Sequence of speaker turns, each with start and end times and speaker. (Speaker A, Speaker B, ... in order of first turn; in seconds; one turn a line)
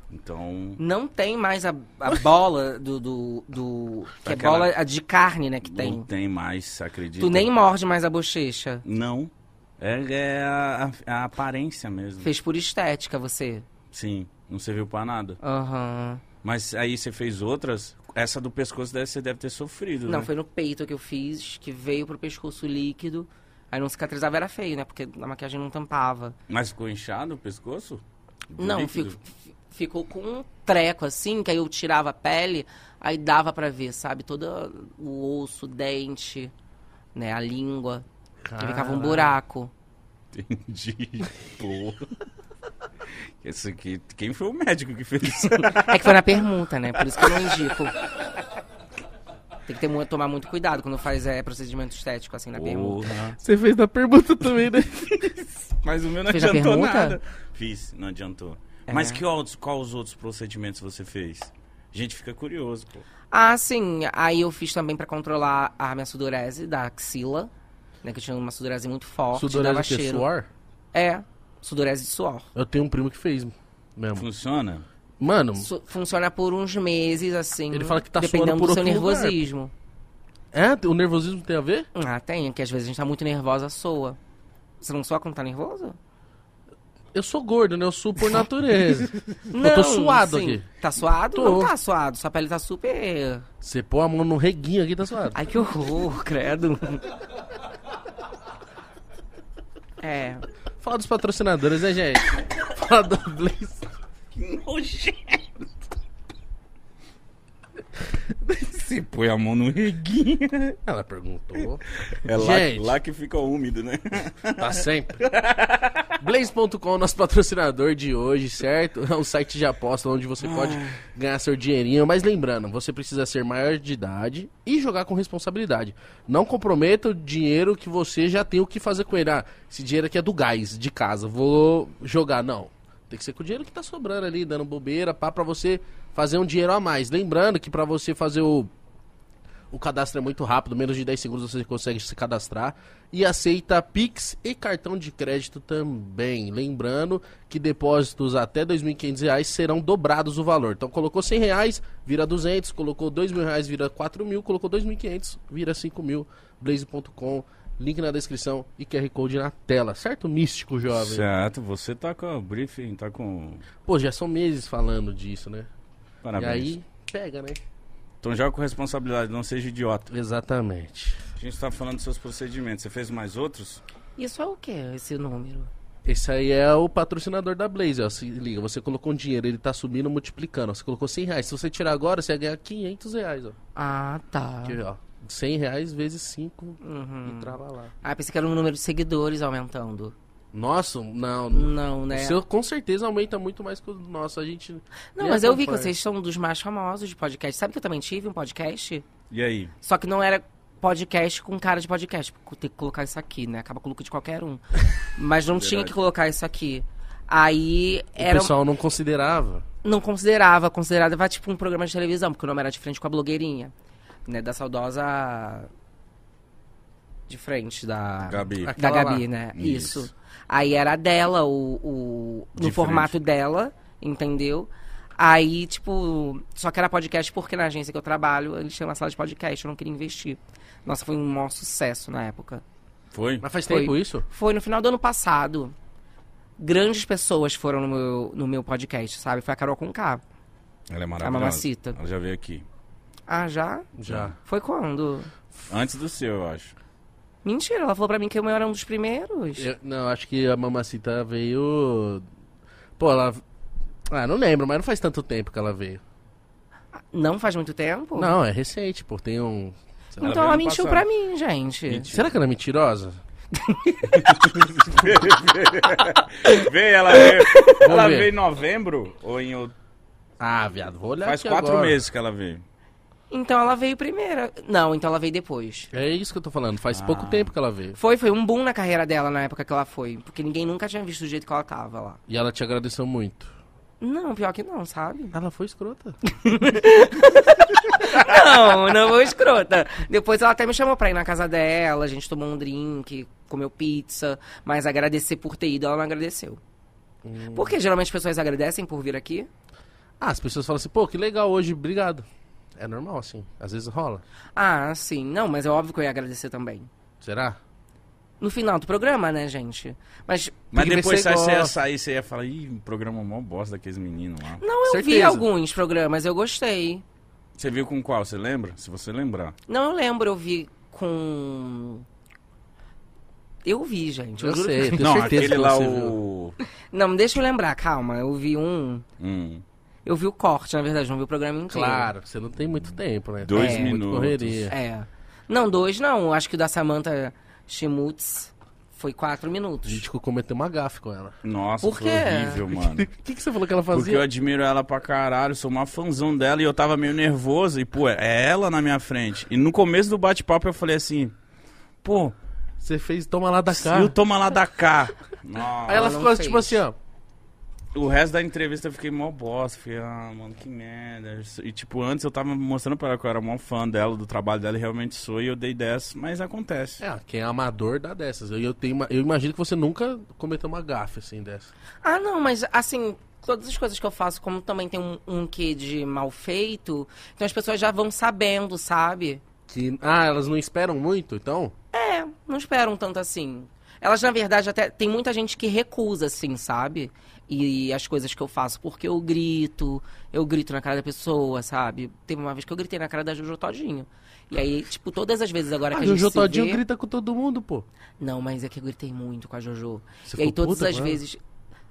Speaker A: 0.1-0.8
Speaker B: 0.8-6.1
Speaker A: 4.2-4.7
Speaker A: 5.7-7.5
Speaker B: 7.2-8.8
Speaker A: 8.8-12.3
Speaker B: 12.2-13.7
Speaker A: 13.9-15.4
Speaker B: 15.4-16.2
Speaker A: 16.4-20.3
Speaker B: 20.1-26.4
Speaker A: 26.5-28.0
Speaker A: 28.5-29.2
Speaker B: 28.6-36.5
Speaker B: 37.1-38.0
Speaker C: 38.5-39.4
Speaker B: 38.6-39.7
Speaker A: 40.3-42.1
Speaker A: 43.4-46.2
Speaker B: 45.5-48.0
Speaker A: 47.1-47.7
Speaker B: 49.7-53.0
Speaker A: 52.5-53.4
Speaker C: 53.4-55.3
Speaker A: 55.7-63.0
Speaker B: 56.2-57.2
Speaker B: 58.9-59.2
Speaker B: 63.3-67.5
Speaker B: 68.0-70.3
Speaker C: 69.3-70.5
Speaker B: 70.9-72.5
Speaker C: 72.5-74.2
Speaker A: 74.2-74.9
Speaker C: 75.2-75.7
Speaker B: 75.6-79.7
Speaker C: 77.7-79.4
Speaker C: 80.5-81.9
Speaker B: 81.9-84.2
Speaker B: 84.8-86.0
Speaker C: 87.1-90.7
Speaker B: 89.5-93.5
Speaker C: 91.3-91.7
Speaker C: 93.6-95.4
Speaker B: 95.3-97.1
Speaker B: 100.0-100.4
Speaker C: 100.8-103.9
Speaker A: 104.3-105.5
Speaker A: 108.4-110.8
Speaker C: 110.8-113.0
Speaker A: 112.0-116.2
Speaker C: 114.6-115.2
Speaker C: 116.2-138.7
Speaker A: 120.4-121.0
Speaker C: 139.7-161.3
Speaker A: 160.9-163.7
Speaker C: 163.8-165.7
Speaker A: 166.2-166.7
Speaker C: 166.4-167.6
Speaker A: 168.2-170.1
Speaker C: 170.1-171.2
Speaker A: 171.4-173.8
Speaker B: 174.2-175.7
Speaker C: 176.1-183.6
Speaker B: 183.8-184.8
Speaker C: 184.7-187.9
Speaker B: 186.8-190.2
Speaker C: 190.5-195.9
Speaker B: 191.5-192.4
Speaker B: 195.2-199.1
Speaker A: 199.3-199.7
Speaker B: 199.8-208.5
Speaker A: 205.5-206.1
Speaker C: 208.2-209.7
Speaker B: 209.8-213.7
Speaker B: 214.3-215.7
Speaker B: 217.3-232.6
Speaker A: 218.3-218.8
Speaker C: 218.6-219.2
Speaker A: 219.6-220.1
Speaker A: 222.6-223.1
Speaker A: 233.1-233.4
Speaker C: 233.4-234.2
Speaker B: 233.7-235.8
Speaker B: 236.6-240.2
Speaker A: 240.9-242.7
Speaker B: 241.2-242.0
Speaker B: 243.3-243.9
Speaker C: 244.0-244.3
Speaker A: 244.1-244.3
Speaker B: 244.4-245.3
Speaker A: 245.7-246.7
Speaker B: 247.4-249.7
Speaker C: 249.6-252.2
Speaker C: 253.0-253.4
Speaker C: 254.1-256.0
Speaker B: 257.1-258.3
Speaker C: 258.2-260.4
Speaker B: 260.2-262.1
Speaker A: 260.2-261.1
Speaker C: 262.0-263.2
Speaker B: 263.5-264.3
Speaker A: 264.1-269.7
Speaker B: 267.2-267.8
Speaker C: 267.8-268.3
Speaker C: 270.4-272.0
Speaker A: 271.2-272.6
Speaker B: 273.3-275.9
Speaker C: 275.9-278.0
Speaker A: 276.9-277.5
Speaker B: 277.9-282.2
Speaker C: 282.3-283.5
Speaker B: 284.0-285.3
Speaker C: 285.3-286.2
Speaker B: 286.3-296.6
Speaker C: 297.2-297.8
Speaker B: 297.5-299.5
Speaker C: 300.2-302.3
Speaker C: 302.8-304.2
Speaker B: 304.6-306.9
Speaker C: 307.2-307.6
Speaker B: 308.4-310.7
Speaker A: 310.7-314.6
Speaker C: 310.7-311.8
Speaker B: 314.6-317.0
Speaker C: 314.9-315.4
Speaker A: 317.6-319.6
Speaker B: 319.7-322.1
Speaker B: 323.6-325.3
Speaker C: 324.4-326.2
Speaker A: 325.0-326.6
Speaker B: 326.9-329.1
Speaker A: 329.2-329.6
Speaker B: 330.1-332.1
Speaker C: 331.7-334.8
Speaker A: 333.4-334.7
Speaker B: 333.5-333.9
Speaker B: 334.7-340.0
Speaker C: 339.9-341.4
Speaker A: 341.4-343.1
Speaker B: 341.8-342.6
Speaker C: 342.7-344.3
Speaker A: 343.9-351.3
Speaker A: 352.0-352.4
Speaker C: 352.8-354.1
Speaker A: 353.7-356.2
Speaker C: 355.9-356.9
Speaker B: 355.9-356.8
Speaker A: 357.9-367.0
Speaker C: 367.0-371.7
Speaker B: 372.0-379.4
Speaker C: 379.7-381.7
Speaker B: 381.9-396.8
Speaker C: 395.9-397.9
Speaker B: 398.2-401.4
Speaker C: 400.3-401.2